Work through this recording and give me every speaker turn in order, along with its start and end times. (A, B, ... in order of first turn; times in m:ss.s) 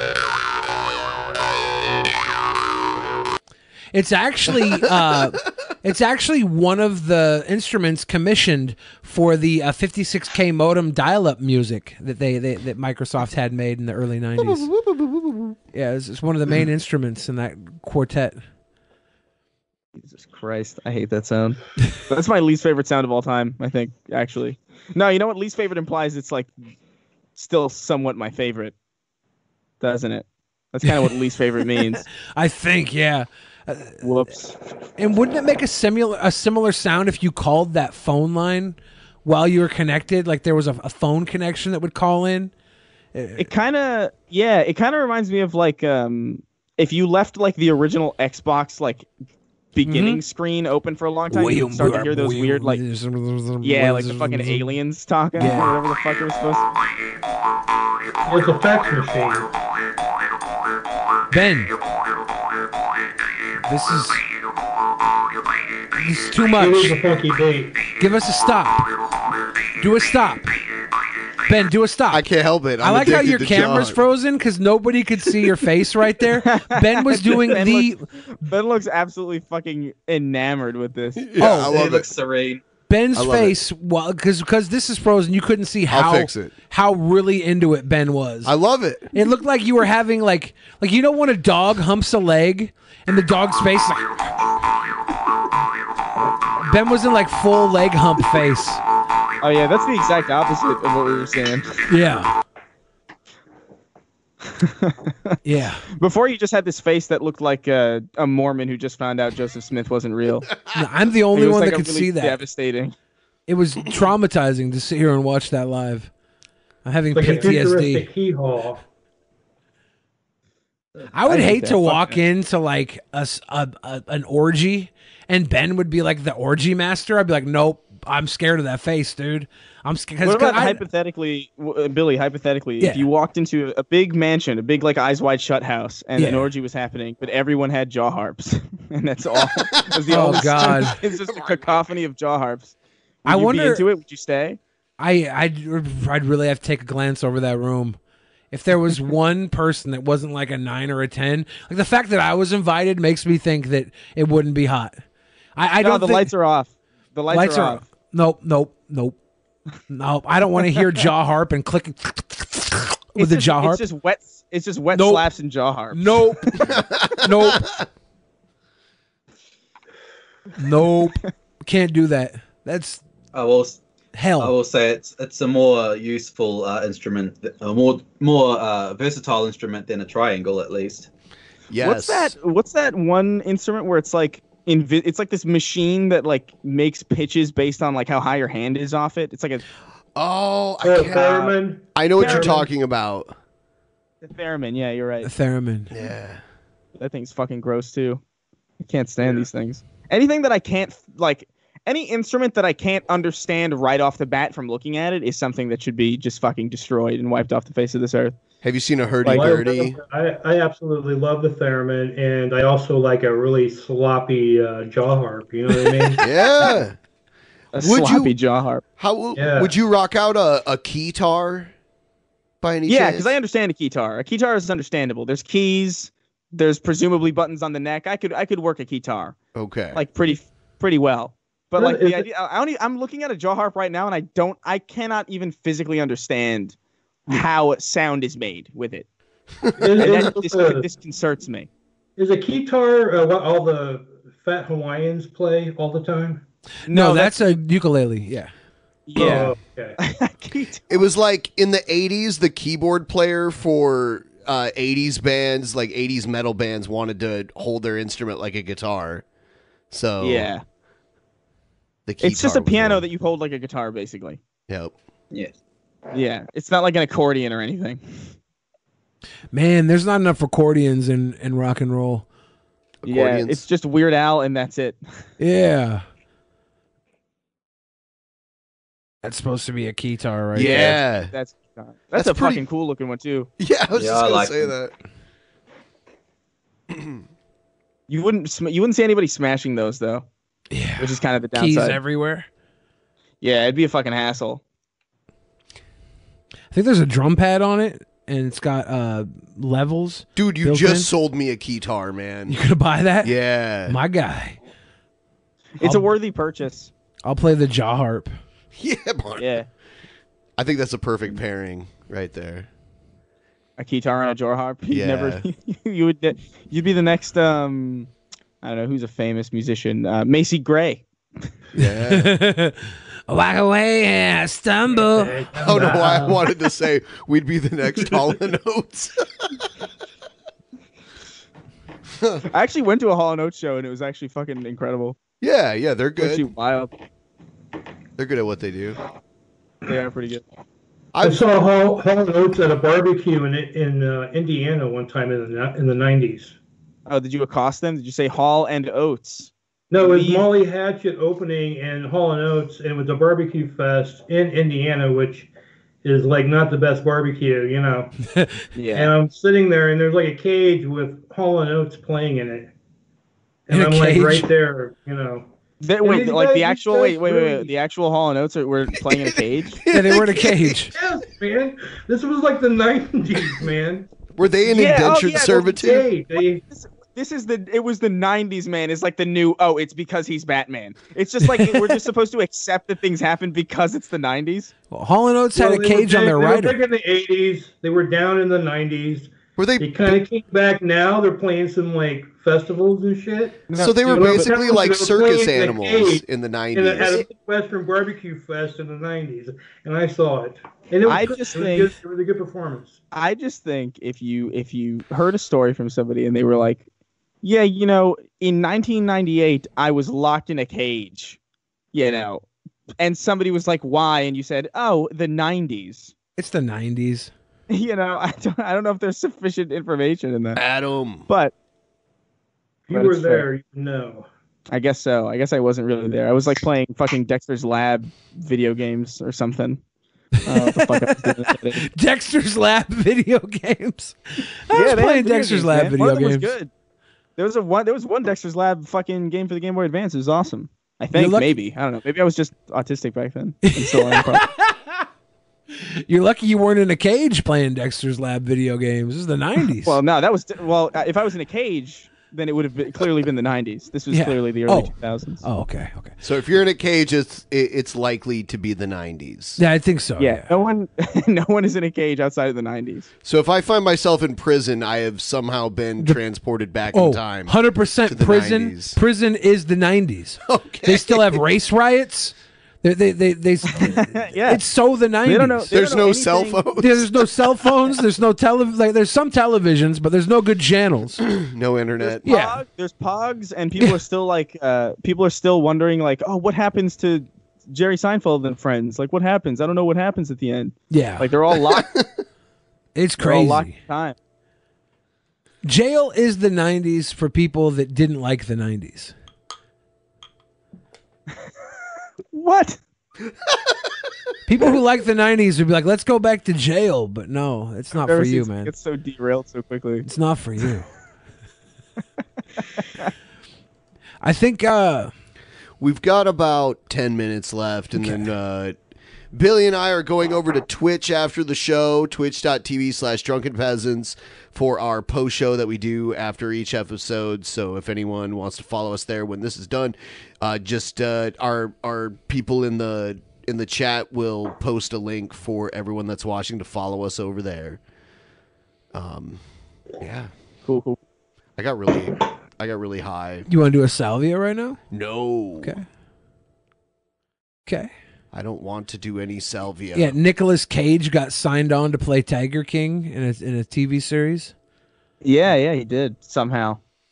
0:03.9-0:14.7 A
0:14.4-0:15.6 B
0:15.7-0:18.4 A
0:20.0-0:26.5 C
0:27.4-0:28.7 C
0:29.8-0:32.1 C
0:32.4-0:34.0 A
0:34.0-0:34.6 C
0:35.0-0:42.5 A
0:43.1-0:43.5 A
0:43.4-0:49.1 C
0:49.7-0:52.8 C
0:49.9-0:50.2 A
0:51.3-0:54.8 A
0:53.6-0:56.7 C
0:55.4-0:55.7 A
0:58.3-0:59.5 D
1:01.3-1:01.7 A
1:03.7-1:04.2 A
1:06.0-1:07.0 A
1:06.6-1:07.8 D
1:08.0-1:08.9 A
1:09.8-1:10.5 A
1:11.5-1:12.2 A
1:12.1-1:14.0 B
1:12.8-1:18.0 A
1:16.5-1:21.3 C
1:21.2-1:22.1 B
1:21.4-1:21.8 A
1:21.4-1:22.6 E
1:22.9-1:28.5 A
1:23.1-1:23.6 B
1:25.9-1:26.5 B
1:28.4-1:29.1 B
1:29.1-1:34.1 A
1:36.6-1:38.8 A
1:39.4-1:41.7 C
1:41.9-1:42.3 A
1:44.5-1:45.4 C
1:45.4-1:45.8 A
1:46.0-1:50.5 C
1:50.7-1:52.4 A
1:51.3-1:52.9 C
1:53.5-1:56.1 A
1:56.8-1:58.1 A
1:57.1-1:58.8 D
2:01.1-2:10.8 A
2:01.3-2:02.2 C
2:10.2-2:22.7 C
2:16.2-2:16.5 A
2:19.4-2:19.8 B
2:20.1-2:21.0 A
2:20.6-2:21.6 B
2:23.2-2:23.8 A
2:23.2-2:24.6 C
2:25.0-2:28.0 A
2:28.5-2:35.0 A
2:35.6-2:36.3 A
2:35.8-2:37.8 C
2:37.3-2:39.2 A
2:39.9-2:43.8 A
2:43.2-2:46.2 C
2:44.9-2:45.3 A
2:45.9-2:47.6 A
2:46.6-2:47.8 B
2:50.6-2:53.0 A
2:53.3-2:53.8 E
2:54.2-2:54.5 A
2:54.4-3:01.1 E
3:01.7-3:02.3 B
3:01.8-3:09.6 C
3:10.2-3:13.3 B
3:10.8-3:12.6 D
3:12.2-3:12.5 C
3:14.2-3:15.3 C
3:15.2-3:15.9 A
3:15.9-3:16.4 B
3:17.0-3:18.2 C
3:18.8-3:28.4 C
3:28.6-3:30.0 B
3:29.2-3:36.2 D
3:36.2-3:37.0 B
3:37.7-3:38.8 C
3:37.8-3:38.3 B
3:39.0-3:41.7 B
3:39.4-3:39.7 D
3:42.6-3:43.3 B
3:42.9-3:49.4 C
3:49.6-3:50.0 B
3:49.9-3:56.8 C
3:51.8-3:52.3 D
3:57.3-3:59.1 C
3:59.8-4:00.9 D
4:00.0-4:01.7 C
4:02.2-4:06.4 D
4:06.9-4:07.6 C
4:06.9-4:08.5 A
4:09.1-4:10.8 C
4:09.2-4:10.0 D
4:10.9-4:19.2 B
4:19.9-4:20.5 B
4:20.2-4:20.6 C
4:22.1-4:23.0 B
4:22.2-4:24.4 C
4:24.7-4:25.0 B
4:26.1-4:28.0 C
4:29.5-4:32.3 A
4:33.0-4:33.6 B
4:33.1-4:35.0 C
4:35.4-4:36.0 A
4:39.2-4:41.0 A
4:40.6-4:41.3 B
4:40.6-4:43.5 C
4:42.2-4:42.6 B
4:43.6-4:44.9 B
4:44.0-4:44.7 E
4:46.9-4:47.2 B
4:48.1-4:50.2 C
4:50.7-4:52.5 A
4:51.0-4:52.0 C
4:53.4-4:54.6 C
4:56.7-5:01.1 A
5:00.4-5:02.6 B
5:02.5-5:03.3 A
5:03.2-5:04.0 B
5:03.9-5:04.6 A
5:05.8-5:06.9 C
5:05.8-5:06.1 A
5:07.2-5:08.3 A
5:08.7-5:09.6 B
5:09.4-5:09.7 C
5:10.6-5:12.7 B
5:13.8-5:18.1 C
5:14.9-5:15.4 B
5:18.6-5:21.0 C
5:21.7-5:22.3 B
5:22.1-5:25.4 A
5:24.9-5:26.4 D
5:25.6-5:29.1 B
5:32.2-5:32.4 B
5:32.5-5:35.2 C
5:35.4-5:36.5 B
5:36.2-5:36.9 C
5:38.2-5:39.0 B
5:39.9-5:40.4 C
5:41.1-5:41.4 B
5:41.2-5:46.6 D
5:47.1-5:50.5 C
5:49.9-5:55.5 D
5:56.0-5:58.1 D
5:58.8-5:59.1 C
5:58.9-6:02.7 D
6:03.7-6:05.5 D
6:03.7-6:04.5 A
6:05.8-6:09.8 C
6:06.0-6:07.7 D
6:09.8-6:10.8 B
6:09.9-6:10.9 A
6:10.9-6:14.1 D
6:14.4-6:16.1 B
6:14.7-6:15.8 C
6:15.6-6:16.6 D
6:16.7-6:24.7 C
6:24.9-6:26.8 A
6:25.6-6:36.2 D
6:29.6-6:30.2 B
6:33.7-6:34.5 C
6:33.8-6:37.2 B
6:36.7-6:43.0 D
6:41.0-6:41.9 C
6:43.1-6:46.8 C
6:47.4-6:51.4 C
6:51.9-6:52.5 C
6:53.0-6:56.1 C
6:56.4-6:57.3 A
6:57.7-7:00.6 C
7:00.6-7:01.2 B
7:01.3-7:01.5 C
7:02.9-7:04.3 D
7:02.9-7:03.5 C
7:04.7-7:09.8 C
7:10.4-7:11.9 C
7:10.5-7:11.3 A
7:11.8-7:14.2 A
7:14.7-7:16.5 A
7:14.7-7:16.7 C
7:17.4-7:24.5 C
7:21.2-7:21.5 A
7:23.6-7:24.9 A
7:26.1-7:30.0 A
7:29.8-7:35.4 C
7:34.1-7:34.9 A
7:35.4-7:36.2 A
7:36.2-7:39.6 B
7:39.6-7:40.5 A
7:40.2-7:43.1 C
7:43.2-7:49.0 B
7:46.9-7:55.7 A
7:50.5-7:51.4 B
7:53.7-7:54.6 C
7:55.3-7:56.6 C
7:55.7-7:57.2 B
7:56.8-8:01.2 A
8:01.2-8:02.2 B
8:02.0-8:11.9 C
8:02.2-8:02.6 A
8:10.9-8:11.3 A
8:11.6-8:12.1 B
8:13.0-8:13.8 A
8:13.2-8:14.2 C
8:15.6-8:19.1 A
8:22.3-8:22.8 C
8:24.5-8:28.7 A
8:27.9-8:30.1 C
8:30.0-8:30.9 A
8:34.2-8:35.1 A
8:35.8-8:38.8 B
8:38.0-8:38.3 A
8:39.3-8:57.8 B
8:58.9-8:59.4 B
9:00.0-9:00.3 B
9:00.7-9:01.0 C
9:01.6-9:03.5 B
9:03.5-9:04.8 A
9:04.9-9:05.8 B
9:07.7-9:07.9 A
9:08.3-9:10.2 B
9:09.9-9:14.5 A
9:15.2-9:16.8 C